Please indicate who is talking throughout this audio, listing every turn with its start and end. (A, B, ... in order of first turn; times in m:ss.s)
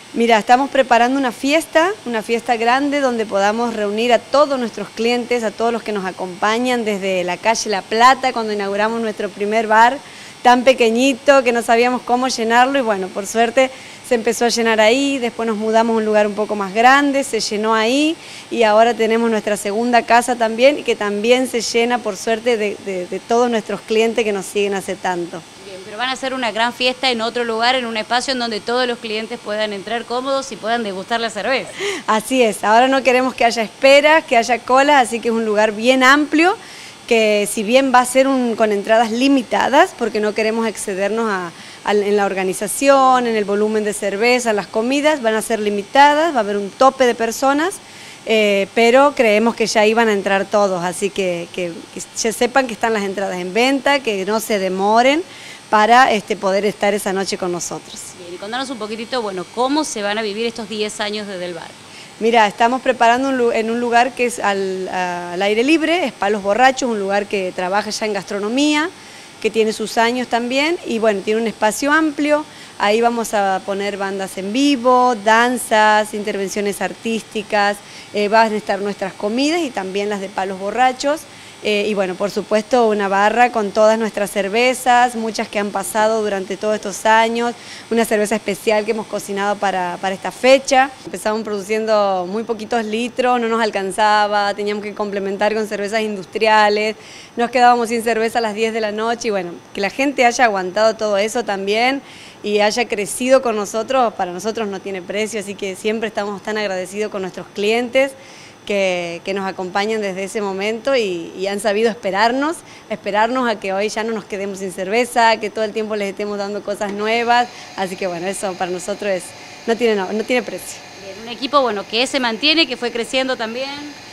0:00.1-0:25.4 A
0:25.6-0:31.7 B
0:32.1-0:58.1 A
0:58.2-1:01.8 B
1:02.2-2:00.8 A
2:01.0-2:04.0 B